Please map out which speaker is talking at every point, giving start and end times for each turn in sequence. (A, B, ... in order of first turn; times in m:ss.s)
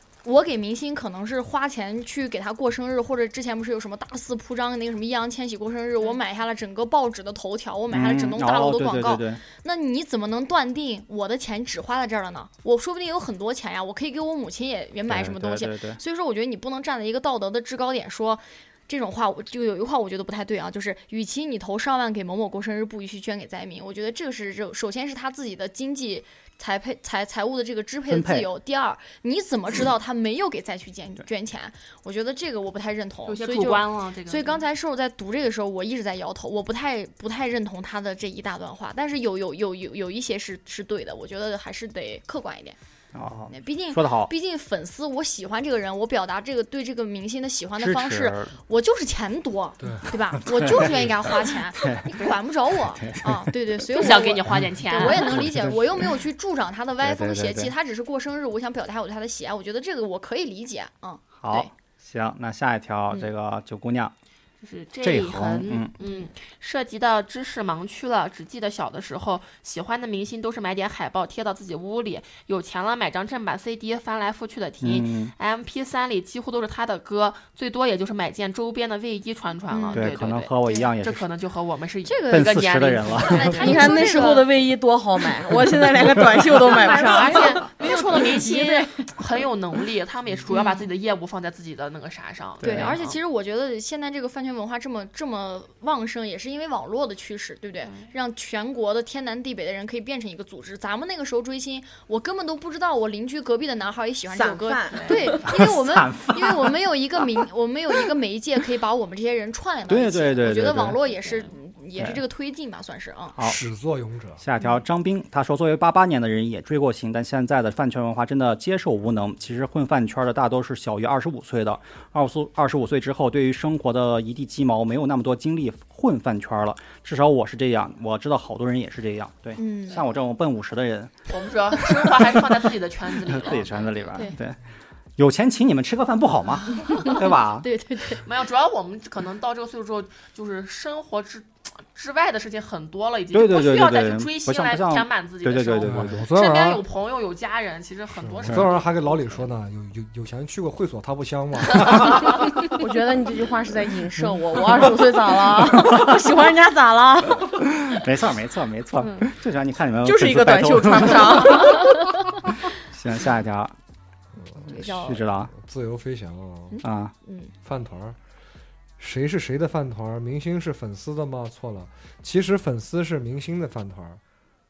0:00.2-0:42.8 A
0:07.9-0:09.4 B
0:15.1-0:16.0 B
0:28.1-0:28.5 B
0:33.2-0:34.6 C
0:43.1-0:44.3 B
0:43.5-1:01.7 A
0:47.8-0:48.6 B
0:50.4-0:52.3 B
0:53.0-0:53.5 B
0:53.9-0:55.5 C
0:54.6-0:55.8 B
0:57.0-0:57.7 B
1:01.4-1:04.1 B
1:04.6-1:24.4 C
1:05.0-1:05.9 B
1:06.0-1:06.3 A
1:14.8-1:15.3 B
1:19.7-1:20.1 A
1:19.9-1:21.3 B
1:20.6-1:20.9 A
1:22.0-1:22.5 A
1:22.3-1:23.6 B
1:23.2-1:24.5 A
1:23.5-1:28.8 D
1:26.7-1:33.1 C
1:26.7-1:28.9 A
1:30.5-1:30.9 A
1:32.6-1:33.1 B
1:32.6-1:53.4 A
1:37.8-1:38.1 C
1:44.3-1:45.4 D
1:44.9-1:45.6 C
1:45.5-1:46.8 B
1:49.9-1:51.0 B
1:53.4-1:54.4 E
1:54.4-2:11.1 B
2:09.6-2:10.0 A
2:11.3-2:14.3 C
2:12.0-2:12.4 B
2:13.2-2:14.6 B
2:15.2-2:17.6 B
2:16.9-2:18.2 A
2:18.2-2:29.5 C
2:23.3-2:26.3 B
2:25.8-2:26.8 E
2:28.2-2:32.5 E
2:32.8-2:37.6 D
2:37.6-2:41.8 B
2:39.0-2:39.3 A
2:40.0-2:42.0 D
2:41.6-2:42.1 A
2:42.7-2:43.7 B
2:44.4-2:44.9 E
2:44.7-2:45.2 A
2:44.7-2:45.5 B
2:45.5-2:46.8 E
2:46.7-2:47.5 A
2:46.8-2:47.1 B
2:47.6-2:48.2 E
2:49.0-2:54.2 E